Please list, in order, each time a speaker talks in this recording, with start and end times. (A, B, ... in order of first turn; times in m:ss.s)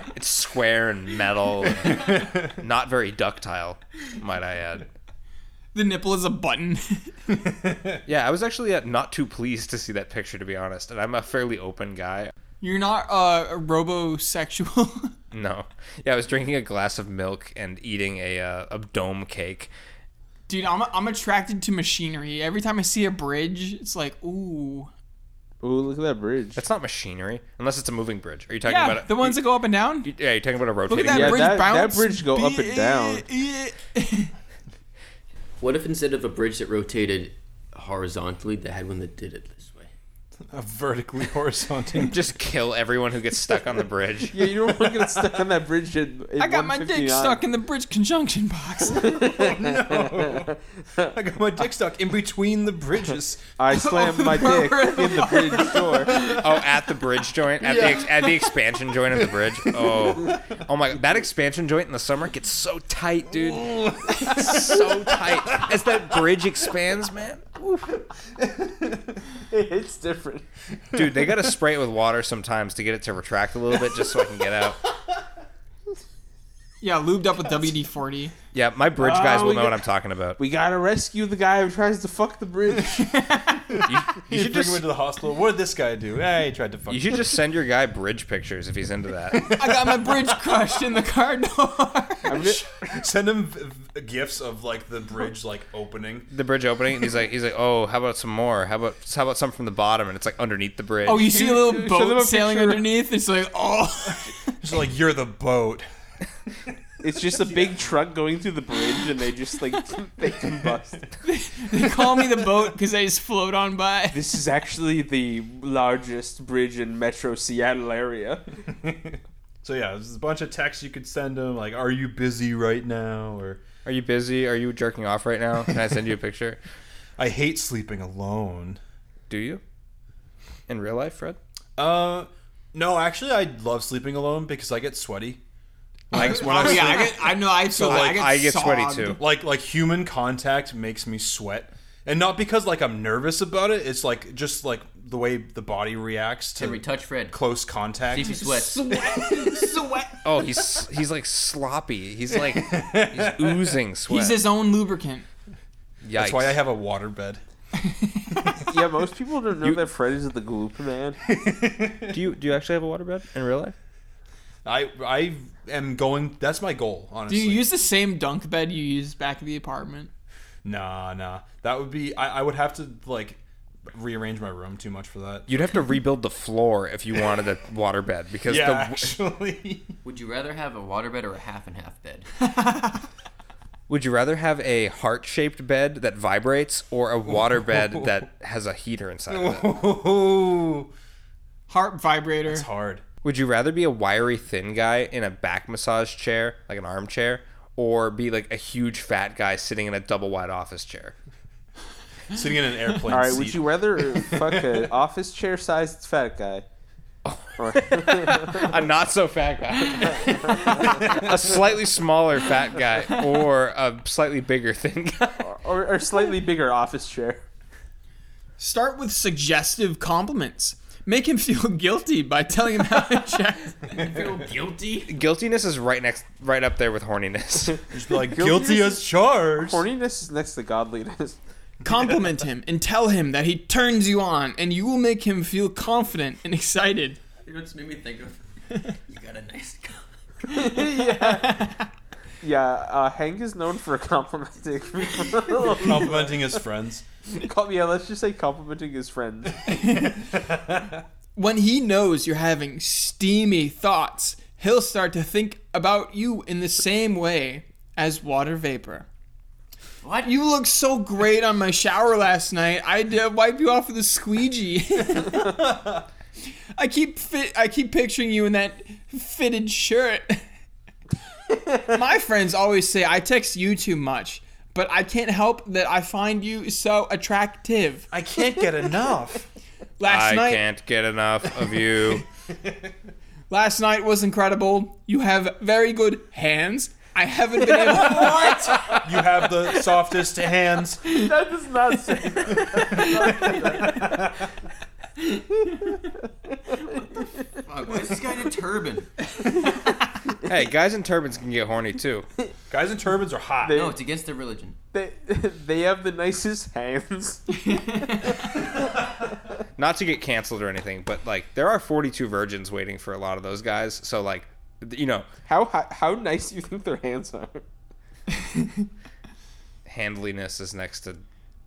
0:00.1-0:04.9 A
0:01.7-0:02.5 B
0:05.7-0:07.1 C
0:07.3-0:08.0 B
0:08.1-0:12.3 A
0:12.6-0:15.1 C
0:15.3-0:19.7 A
0:20.5-0:24.9 C
0:25.6-0:26.6 D
0:26.6-0:29.5 A
0:28.6-0:30.1 C
0:30.0-0:31.6 A
0:30.9-0:34.3 C
0:30.9-0:33.2 D
0:35.6-0:39.9 E
0:40.5-0:42.3 B
0:42.0-0:44.4 A
0:44.3-0:47.4 D
0:44.5-0:45.4 B
0:46.4-0:49.2 C
0:48.8-0:51.1 D
0:49.0-0:53.5 B
0:53.6-0:56.2 D
0:53.7-0:56.6 C
0:56.1-1:07.6 A
0:57.6-0:58.3 B
0:59.7-1:00.6 B
1:03.4-1:05.8 B
1:08.5-1:08.8 B
1:09.4-1:10.4 D
1:10.9-1:14.8 A
1:10.9-1:11.2 B
1:16.8-1:18.3 C
1:18.5-1:20.4 A
1:19.0-1:19.8 D
1:20.4-1:23.1 D
1:23.0-1:23.8 C
1:23.8-1:24.9 A
1:24.1-1:27.3 B
1:26.9-1:29.6 A
1:29.4-1:30.3 B
1:29.4-1:32.4 C
1:32.2-1:33.0 D
1:32.3-1:36.3 B
1:36.3-1:41.4 A
1:41.0-1:44.3 C
1:41.3-1:42.9 D
1:44.5-1:45.9 B
1:47.0-1:51.0 D
1:47.2-1:47.8 B
1:51.2-1:54.3 C
1:54.1-1:58.4 D
1:58.7-2:03.6 B
2:03.8-2:06.6 A
2:07.2-2:08.8 B
2:09.3-2:09.6 A
2:10.7-2:11.4 A
2:11.8-2:15.4 B
2:16.1-2:18.3 B
2:16.1-2:19.2 A
2:16.2-2:19.2 C
2:19.2-2:29.7 B
2:26.6-2:27.4 E
2:28.1-2:28.8 E
2:28.2-2:30.2 C
2:30.2-2:34.5 A
2:32.3-2:33.8 B
2:34.1-2:35.2 C
2:36.0-2:36.6 A
2:36.1-2:37.4 B
2:37.8-2:38.6 C
2:38.7-2:41.2 D
2:41.3-2:42.2 B
2:42.1-2:43.7 A
2:44.6-2:47.6 B
2:47.3-2:50.1 C
2:50.6-2:53.4 B
2:53.9-2:55.6 B
2:55.5-2:59.2 A
2:58.4-2:59.9 B
3:00.0-3:02.3 E
3:02.4-3:03.0 C
3:03.9-3:09.7 A
3:09.3-3:10.9 B
3:11.7-3:12.7 C
3:12.4-3:13.0 B
3:13.2-3:21.1 A
3:22.3-3:24.8 B
3:23.1-3:26.6 D
3:27.2-3:35.5 A
3:27.6-3:28.9 D
3:30.1-3:31.2 D
3:35.4-3:37.4 D
3:38.6-3:43.8 C
3:43.9-3:45.1 E
3:45.0-3:47.9 A
3:47.9-3:49.8 B
3:48.2-3:51.4 D
3:51.8-3:57.2 C
3:57.4-4:00.1 E
4:00.5-4:01.9 C
4:00.5-4:01.7 D
4:02.4-4:06.4 D
4:05.6-4:07.0 B
4:07.3-4:09.8 D
4:09.7-4:11.0 B
4:11.4-4:19.1 C
4:20.0-4:20.3 E
4:20.2-4:25.6 C
4:25.4-4:26.0 B
4:26.8-4:30.4 C
4:31.7-4:38.1 C
4:38.1-4:39.5 B
4:40.0-4:40.7 C
4:40.0-4:42.2 A
4:41.6-4:42.0 B
4:43.5-4:49.0 C
4:49.0-4:51.2 B
4:51.1-4:54.2 D
4:52.5-4:54.4 B
4:57.6-4:59.1 E
4:59.4-4:59.9 C
5:00.4-5:02.3 A
5:02.7-5:03.9 B
5:03.6-5:04.0 D
5:03.7-5:04.8 E
5:04.9-5:08.7 D
5:07.5-5:08.7 C
5:09.8-5:15.2 A
5:15.4-5:17.6 D
5:18.3-5:18.9 C
5:19.8-5:21.2 A